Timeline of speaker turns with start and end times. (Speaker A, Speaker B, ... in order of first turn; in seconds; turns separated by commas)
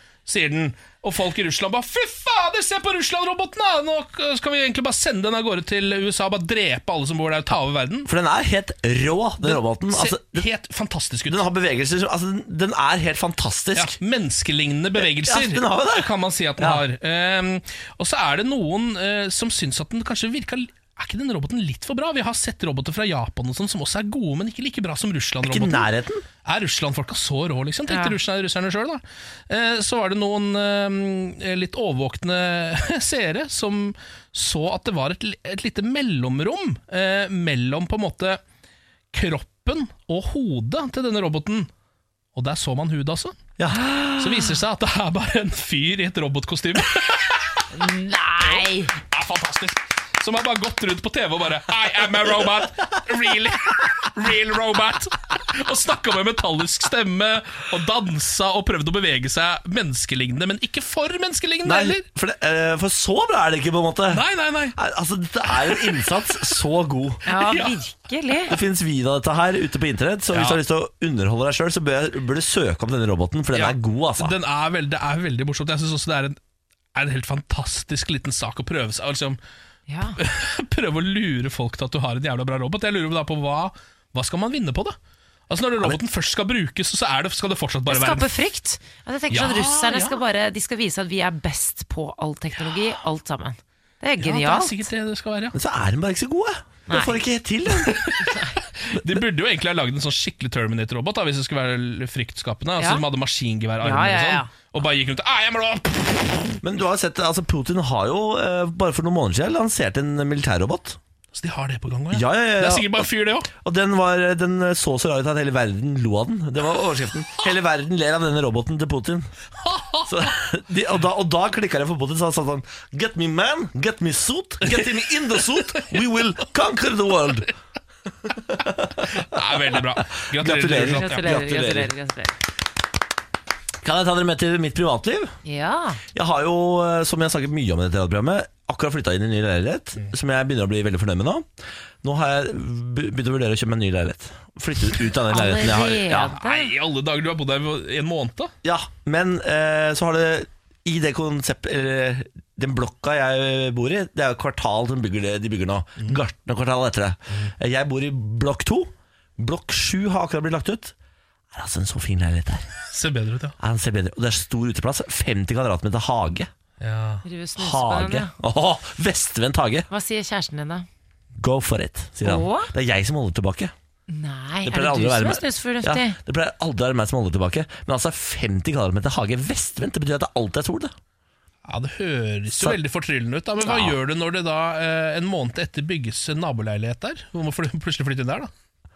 Speaker A: 0.2-8.1, Speaker B: 8.1-10.4, Speaker A: 9.4-11.4, Speaker B: 11.3-13.9, Speaker A: 13.8-25.9, Speaker B: 15.0-16.8, Speaker B: 25.4-26.2, Speaker A: 26.4-38.4, Speaker C: 27.9-28.2, Speaker A: 39.1-41.7, Speaker A: 42.3-43.4, Speaker B: 43.6-44.4, Speaker A: 44.2-47.6, Speaker C: 47.7-48.9, Speaker A: 48.4-62.0, Speaker B: 61.6-64.2, Speaker A: 64.1-64.8, Speaker B: 64.7-67.2, Speaker C: 67.3-68.5, Speaker A: 67.3-67.8, Speaker B: 68.5-74.3, Speaker A: 70.3-70.6, Speaker A: 73.5-76.4, Speaker A: 76.9-79.4, Speaker C: 79.9-80.2, Speaker A: 80.2-85.0, Speaker A: 85.5-88.3, Speaker C: 87.9-94.9, Speaker A: 89.3-90.2, Speaker A: 94.2-95.6, Speaker B: 95.5-98.2, Speaker C: 96.9-97.2, Speaker A: 97.8-106.5, Speaker C: 103.8-104.5, Speaker B: 106.6-111.0, Speaker A: 111.3-113.5, Speaker B: 112.1-119.3, Speaker A: 119.6-120.3, Speaker B: 120.1-127.5, Speaker A: 124.6-124.9, Speaker B: 128.5-131.9, Speaker A: 129.1-131.2, Speaker C: 130.9-132.3, Speaker B: 133.8-135.3, Speaker C: 135.4-136.0, Speaker B: 136.1-141.5, Speaker B: 142.0-146.3, Speaker C: 145.3-146.7, Speaker A: 146.3-148.5, Speaker B: 148.6-160.9, Speaker B: 161.5-162.7, Speaker A: 162.9-163.5, Speaker B: 163.6-166.5, Speaker A: 166.8-167.2, Speaker C: 167.2-168.3, Speaker B: 167.6-169.9, Speaker C: 169.9-170.8, Speaker B: 171.4-173.7, Speaker C: 172.2-172.7, Speaker C: 174.1-176.2, Speaker B: 174.6-180.9, Speaker A: 181.7-188.5, Speaker B: 182.5-182.8, Speaker B: 183.6-184.0